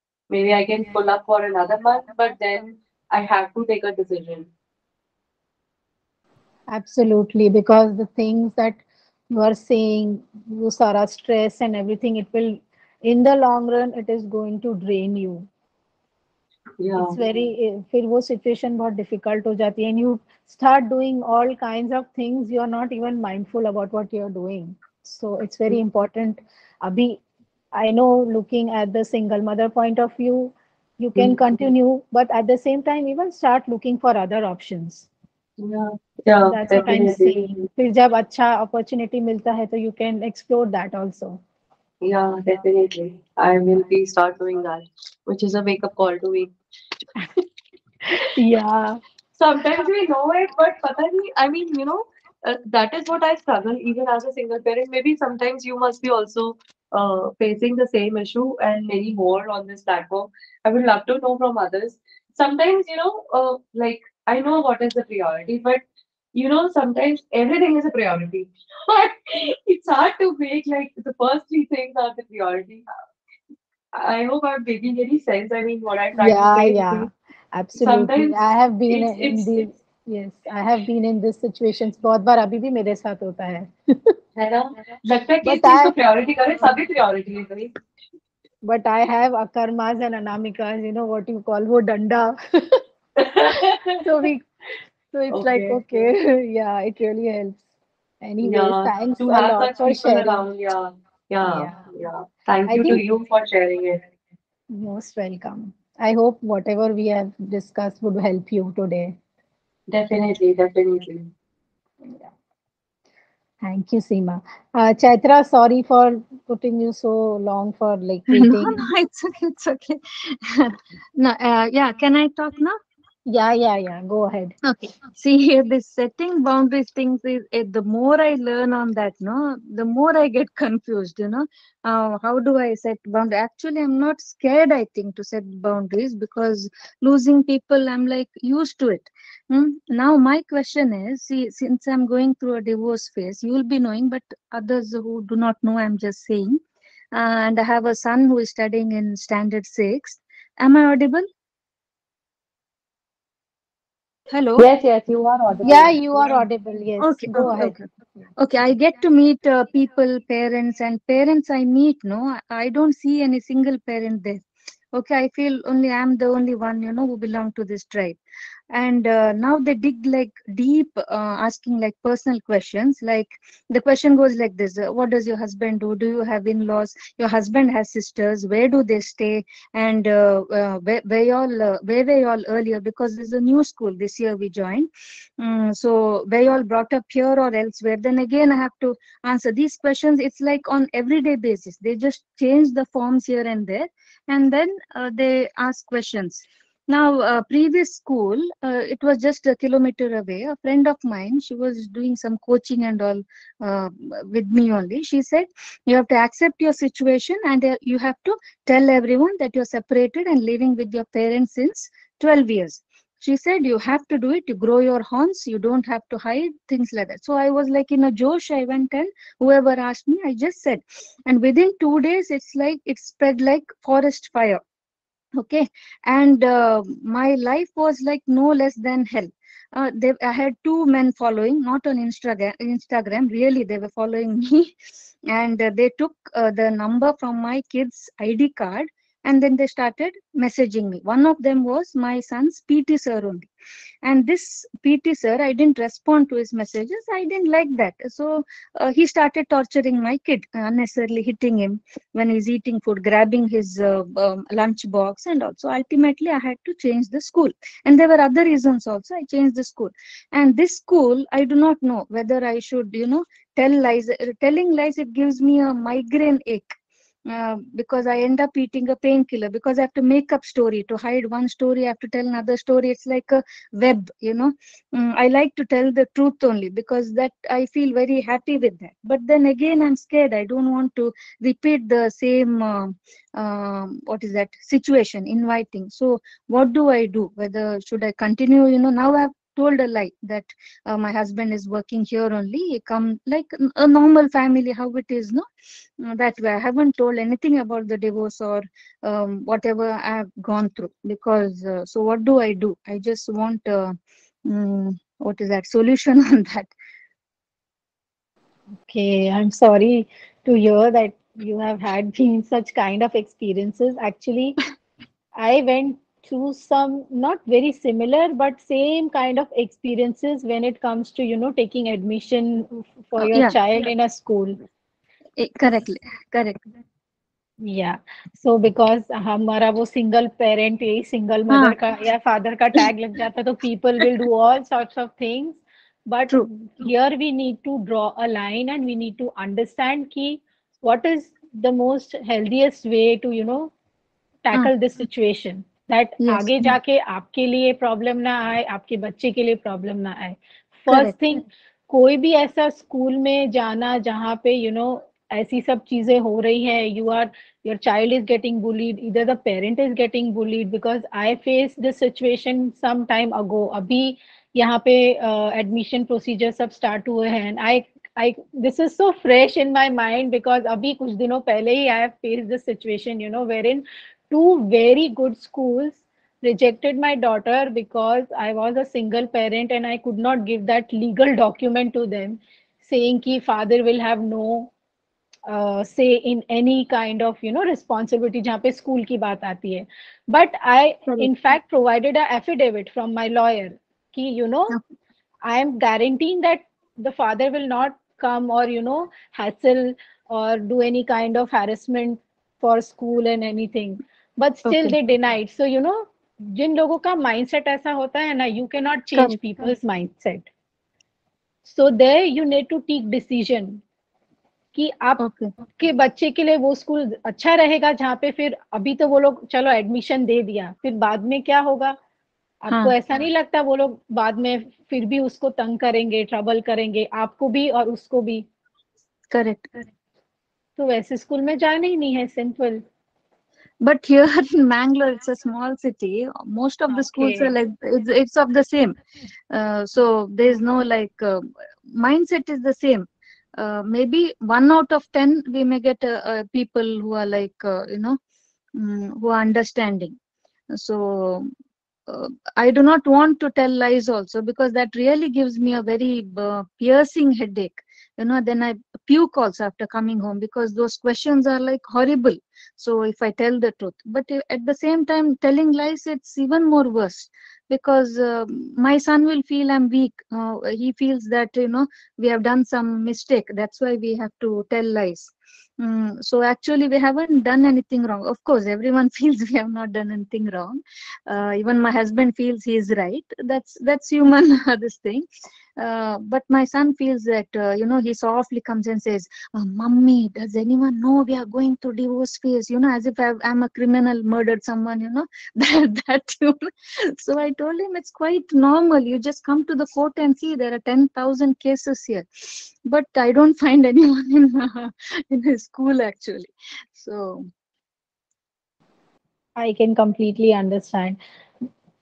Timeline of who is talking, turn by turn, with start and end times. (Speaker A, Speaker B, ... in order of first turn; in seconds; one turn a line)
Speaker A: 0.3-4.5
Speaker B: 6.7-15.5
Speaker A: 16.8-17.2
Speaker B: 17.0-27.2
Speaker B: 27.7-35.1
Speaker A: 35.6-37.7
Speaker B: 36.5-41.4
Speaker A: 42.0-46.5
Speaker B: 48.3-49.0
Speaker A: 49.4-65.8
Speaker A: 66.3-72.8
Speaker A: 73.9-77.1
Speaker B: 76.2-84.1
Speaker A: 77.8-78.4
Speaker A: 78.9-79.7
Speaker A: 84.4-87.7
Speaker B: 85.4-85.9
Speaker B: 88.6-92.8
Speaker A: 93.2-94.0
Speaker B: 94.0-94.4
Speaker B: 95.1-97.6
Speaker A: 95.3-95.8
Speaker B: 98.2-100.4
Speaker A: 98.4-104.0
Speaker B: 101.4-101.8
Speaker B: 102.7-103.0
Speaker B: 104.7-109.2
Speaker A: 109.9-111.3
Speaker B: 113.6-118.8
Speaker C: 118.3-122.8
Speaker B: 123.3-124.5
Speaker C: 124.6-146.6
Speaker C: 147.1-151.3
Speaker C: 154.3-154.7
Speaker A: 154.6-155.9
Speaker B: 155.6-158.2
Speaker C: 157.0-157.8
Speaker C: 158.4-168.2
Speaker C: 168.7-224.6
Speaker C: 225.4-234.7
Speaker C: 235.3-243.5
Speaker C: 244.0-295.5
Speaker C: 296.0-306.7
Speaker B: 308.9-314.6
Speaker B: 315.4-324.6
Speaker C: 323.2-323.6
Speaker C: 325.4-326.6
Speaker B: 327.6-343.7
Speaker C: 331.5-331.8
Speaker B: 344.4-384.7
Speaker C: 346.2-346.7
Speaker C: 350.9-351.2
Speaker B: 385.5-394.8
Speaker B: 395.4-410.5
Speaker C: 404.6-404.9
Speaker B: 411.6-413.8
Speaker B: 414.7-422.0
Speaker C: 415.2-415.5
Speaker B: 422.6-428.4
Speaker C: 422.7-422.9
Speaker C: 429.3-429.7
Speaker B: 430.8-432.8
Speaker C: 433.8-439.0
Speaker B: 437.1-437.5
Speaker C: 439.5-448.2
Speaker C: 448.7-450.2
Speaker C: 450.7-451.5
Speaker C: 452.1-485.2
Speaker C: 485.8-507.5
Speaker B: 509.6-511.6